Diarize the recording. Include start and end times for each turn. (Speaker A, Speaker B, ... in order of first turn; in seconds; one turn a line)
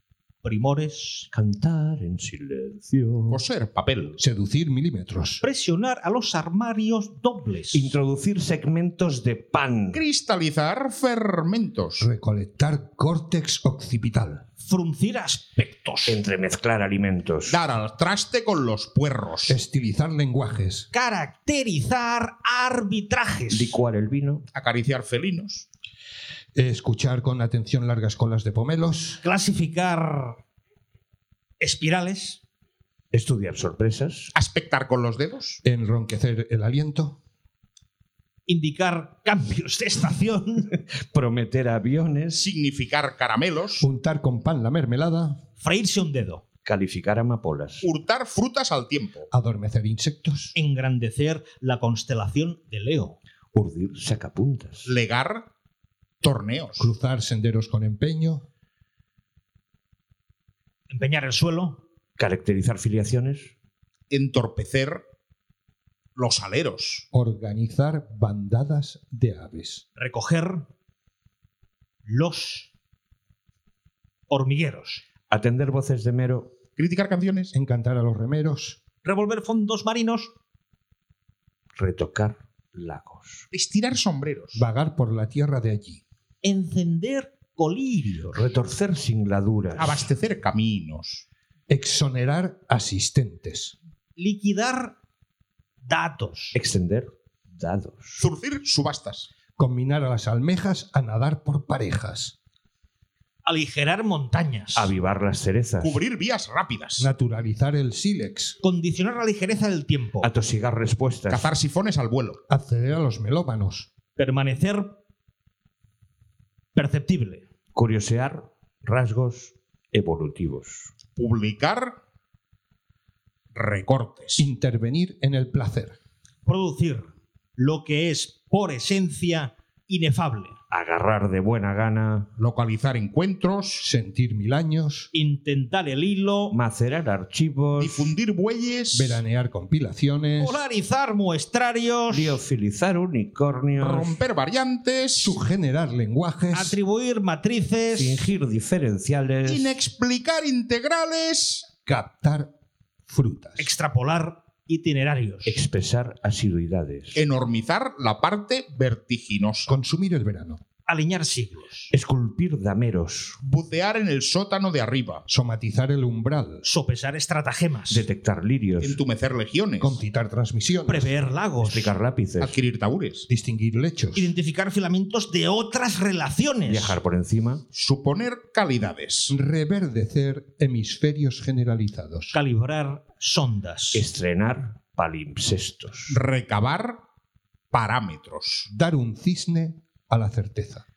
Speaker A: 0.4-1.3
Speaker B: 1.3-3.4
Speaker C: 3.3-4.2
Speaker D: 4.2-5.4
Speaker A: 5.4-7.9
Speaker B: 7.7-10.0
Speaker C: 9.9-12.0
Speaker D: 12.0-14.4
Speaker A: 14.6-16.2
Speaker B: 16.1-17.6
Speaker C: 17.5-19.6
Speaker D: 19.5-20.9
Speaker A: 20.9-23.8
Speaker B: 23.5-24.5
Speaker C: 24.5-25.6
Speaker D: 26.5-29.2
Speaker A: 29.2-30.4
Speaker A: 31.6-32.4
Speaker B: 33.1-34.3
Speaker C: 34.3-35.6
Speaker D: 35.6-37.2
Speaker A: 38.5-40.7
Speaker B: 40.7-42.5
Speaker C: 42.3-43.9
Speaker D: 43.8-45.4
Speaker A: 45.6-46.4
Speaker B: 46.6-47.9
Speaker C: 47.8-49.3
Speaker D: 49.3-50.5
Speaker A: 50.5-53.2
Speaker B: 53.5-54.9
Speaker C: 54.9-55.5
Speaker C: 56.2-56.9
Speaker D: 56.8-58.5
Speaker A: 60.9-61.8
Speaker B: 62.2-63.5
Speaker C: 64.1-65.0
Speaker C: 66.2-67.0
Speaker D: 67.1-69.8
Speaker A: 70.0-70.7
Speaker A: 72.0-72.7
Speaker A: 74.3-75.0
Speaker B: 75.3-76.6
Speaker C: 76.8-77.5
Speaker D: 77.5-78.8
Speaker A: 79.0-80.3
Speaker B: 81.8-83.5
Speaker C: 83.5-84.6
Speaker D: 84.5-86.0
Speaker A: 86.4-88.4
Speaker B: 88.3-90.1
Speaker C: 89.7-91.2
Speaker D: 91.7-93.7
Speaker A: 94.2-95.0
Speaker A: 95.8-96.6
Speaker B: 96.5-98.2
Speaker C: 98.2-99.3
Speaker D: 99.6-102.3
Speaker A: 103.4-104.9
Speaker B: 104.7-106.0
Speaker C: 105.8-107.1
Speaker D: 107.0-108.6
Speaker A: 108.6-110.3
Speaker B: 110.2-111.5
Speaker C: 111.3-112.4
Speaker D: 112.5-113.9
Speaker A: 114.2-115.0
Speaker A: 116.7-117.4
Speaker B: 117.7-120.9
Speaker C: 121.1-122.0
Speaker C: 123.5-124.5
Speaker D: 124.4-126.0
Speaker A: 126.5-130.6
Speaker B: 130.7-132.3
Speaker C: 132.4-133.8
Speaker D: 133.8-135.1
Speaker A: 135.1-136.6
Speaker B: 136.5-138.1
Speaker C: 137.8-139.2
Speaker D: 138.9-140.6
Speaker A: 140.4-142.4
Speaker B: 142.1-144.2
Speaker C: 143.8-145.3
Speaker D: 145.2-146.8
Speaker A: 146.5-148.2
Speaker B: 147.9-149.7
Speaker C: 149.4-151.7
Speaker D: 151.8-152.5
Speaker D: 153.1-153.7
Speaker A: 153.6-155.6
Speaker B: 155.4-157.2
Speaker C: 157.1-159.7
Speaker D: 159.7-160.6
Speaker A: 160.9-161.9
Speaker B: 161.9-163.4
Speaker C: 163.4-165.2
Speaker D: 165.3-166.6
Speaker A: 166.6-168.0
Speaker B: 167.9-169.0
Speaker C: 168.8-170.0
Speaker D: 169.8-171.1
Speaker A: 170.9-171.9
Speaker B: 171.6-172.6
Speaker C: 172.4-173.3
Speaker D: 173.3-174.3
Speaker A: 174.1-177.0
Speaker B: 176.7-177.6
Speaker C: 177.7-179.3
Speaker D: 179.3-182.3
Speaker A: 182.3-184.1
Speaker B: 183.9-186.2
Speaker C: 186.1-187.0
Speaker C: 187.7-188.7
Speaker D: 188.7-190.8